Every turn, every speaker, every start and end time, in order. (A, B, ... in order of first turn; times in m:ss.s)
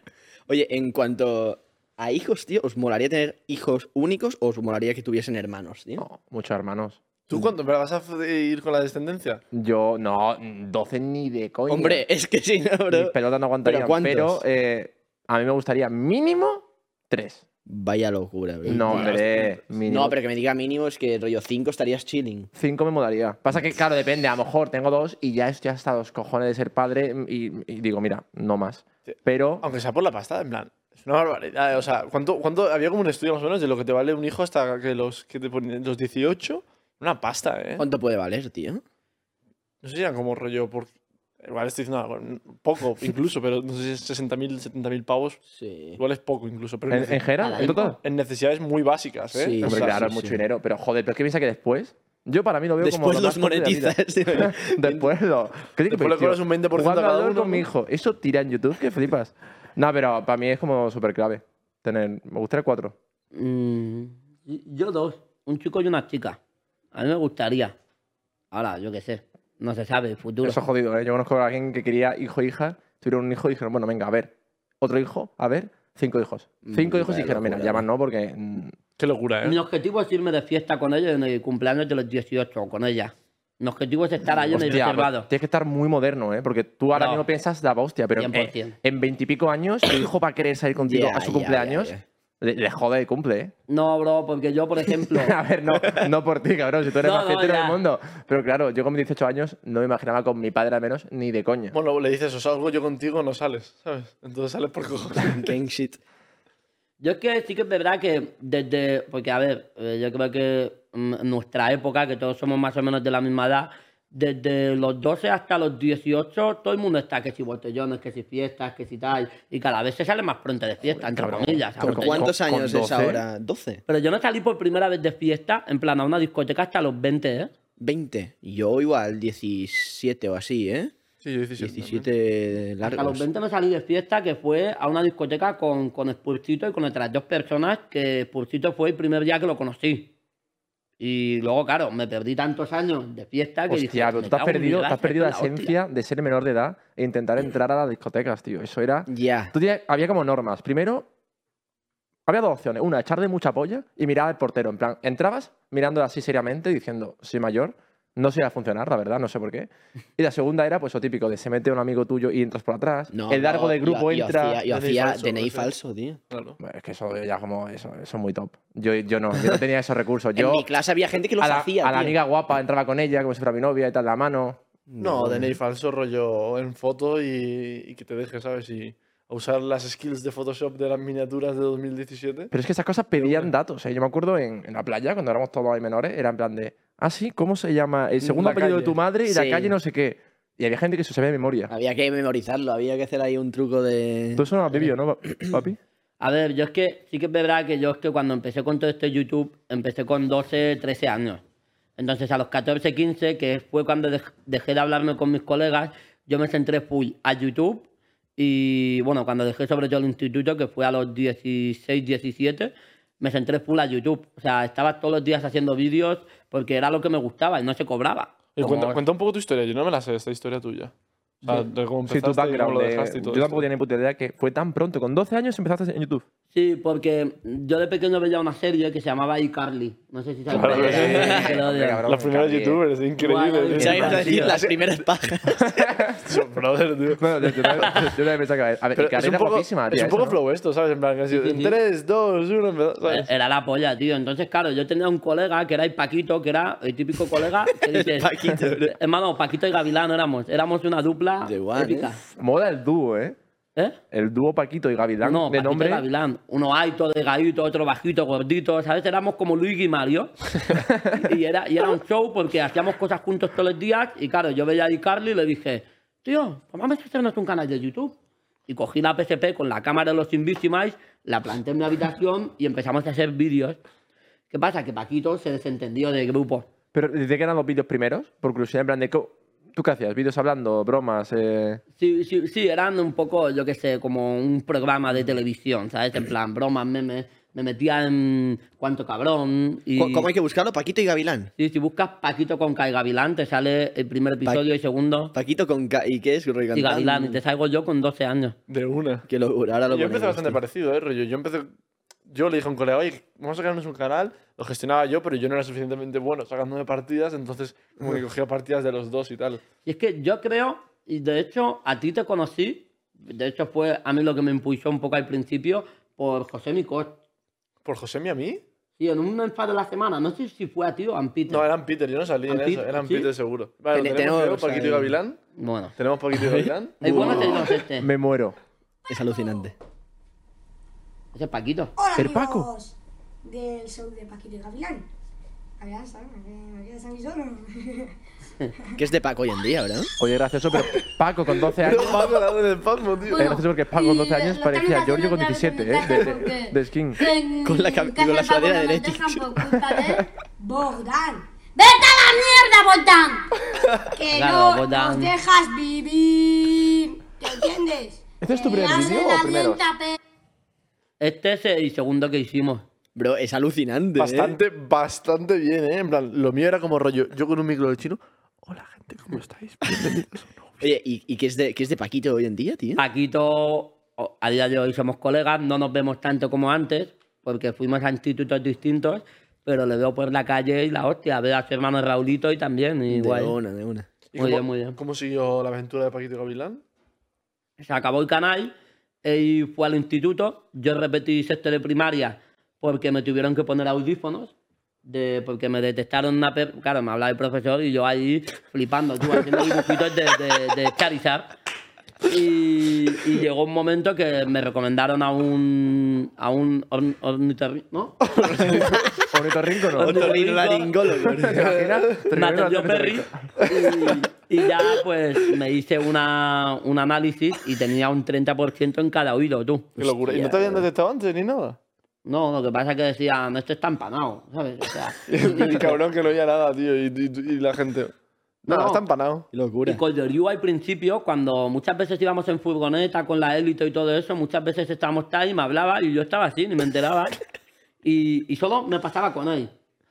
0:00.5-0:06.0 A
0:06.0-0:07.0 B
0:07.3-0:09.4 C
0:09.5-0:12.0 B
0:11.7-0:13.1 A
0:12.9-0:17.4 B
0:13.6-0:14.4 A
0:17.7-0:22.5 A
0:18.6-0:20.2 B
0:22.5-0:29.6 B
0:29.1-0:37.8 C
0:37.8-0:38.8 A
0:39.8-0:45.4 C
0:45.5-0:46.0 A
0:46.0-0:50.0 C
0:46.9-0:48.0 B
0:47.4-0:47.8 D
0:49.3-0:50.4 A
0:49.6-1:03.0 B
0:52.8-0:55.1 A
0:55.9-0:57.6 C
1:03.3-1:06.4 D
1:06.9-1:07.8 D
1:08.5-1:10.6 D
1:10.4-1:18.8 B
1:16.6-1:17.8 A
1:19.0-1:19.6 C
1:19.4-1:25.3 D
1:24.5-1:33.5 B
1:26.9-1:27.2 D
1:28.2-1:28.8 D
1:30.8-1:32.0 A
1:33.7-1:35.4 D
1:35.1-1:41.8 B
1:35.8-1:36.0 A
1:37.0-1:37.8 D
1:41.7-1:45.5 C
1:45.2-1:46.0 A
1:47.0-2:02.3 D
2:00.8-2:03.2 B
2:01.8-2:03.8 A
2:03.9-2:07.5 D
2:07.8-2:10.9 A
2:11.2-2:12.1 C
2:11.6-2:13.2 A
2:12.8-2:20.1 D
2:21.0-2:25.8 D
2:23.7-2:31.1 B
2:29.1-2:29.5 A
2:32.3-2:44.6 B
2:43.1-2:46.2 A
2:44.7-2:45.7 C
2:46.3-2:46.6 C
2:46.6-2:50.7 B
2:50.4-2:52.2 A
2:51.4-2:54.6 B
2:54.9-2:55.6 A
2:55.0-3:02.5 C
3:02.5-3:11.7 B
3:03.2-3:03.5 C
3:08.3-3:08.9 C
3:09.2-3:09.8 A
3:11.7-3:14.5 A
3:14.4-3:15.8 B
3:16.2-3:21.4 D
3:22.0-3:39.0 D
3:38.6-3:43.6 C
3:42.1-3:46.2 B
3:46.5-3:52.0 D
3:50.5-3:52.8 B
3:50.5-3:51.4 C
3:51.0-3:51.5 A
3:52.0-3:54.6 C
3:53.2-3:54.6 D
3:53.8-3:55.9 A
3:54.0-3:54.5 B
3:55.6-3:56.2 B
3:56.2-3:58.1 C
3:57.2-4:00.4 B
3:59.0-4:03.3 C
4:01.3-4:01.8 D
4:03.1-4:12.2 D
4:07.9-4:08.9 A
4:11.4-4:12.1 A
4:12.3-4:13.4 B
4:14.1-4:16.0 B
4:15.2-4:20.3 D
4:21.2-4:28.1 D
4:28.7-4:33.8 D
4:34.5-4:36.7 D
4:36.9-4:41.8 B
4:42.0-4:50.3 D
4:50.0-4:51.5 A
4:51.6-4:55.3 D
4:55.3-4:57.4 A
4:56.7-4:58.6 D
4:58.7-4:59.2 C
4:59.3-5:00.6 A
4:59.9-5:01.7 C
5:02.3-5:09.6 C
5:09.9-5:17.2 D
5:17.8-5:18.6 C
5:19.0-5:21.6 D
5:21.5-5:25.4 C
5:22.5-5:23.3 D
5:23.9-5:25.2 A
5:25.6-5:25.9 D
5:26.0-5:27.5 C
5:26.3-5:27.8 A
5:27.0-5:28.1 D
5:28.0-5:28.6 B
5:29.1-5:29.7 A
5:31.3-5:31.9 D
5:32.0-5:35.1 E
5:32.2-5:32.7 B
5:35.8-5:38.1 E
5:39.0-5:40.1 A
5:40.2-5:42.3 B
5:41.8-5:43.4 C
5:43.3-5:53.4 E
5:43.3-5:47.2 B
5:47.6-5:49.8 A
5:54.1-6:00.2 E
5:54.3-5:55.4 D
5:58.4-5:59.8 B
6:01.2-6:02.8 D
6:03.2-6:04.6 A
6:04.2-6:10.7 C
6:10.8-6:13.0 A
6:13.0-6:23.6 D
6:23.1-6:24.1 A
6:24.3-6:26.8 C
6:24.4-6:25.0 D
6:27.8-6:28.7 D
6:29.2-6:34.5 D
6:35.0-6:41.5 D
6:42.2-6:48.8 D
6:48.4-6:49.0 C
6:48.4-6:49.1 A
6:49.2-6:50.3 B
6:50.0-6:51.9 A
6:50.0-6:50.9 D
6:51.5-6:53.5 B
6:51.6-6:52.1 C
6:52.3-7:00.7 D
6:53.7-6:54.1 C
7:00.0-7:01.8 C
7:00.3-7:00.8 A
7:02.2-7:06.0 D
7:05.3-7:08.1 C
7:08.6-7:09.5 C
7:08.7-7:09.0 D
7:09.5-7:10.0 A
7:09.8-7:17.4 D
7:18.0-7:19.7 D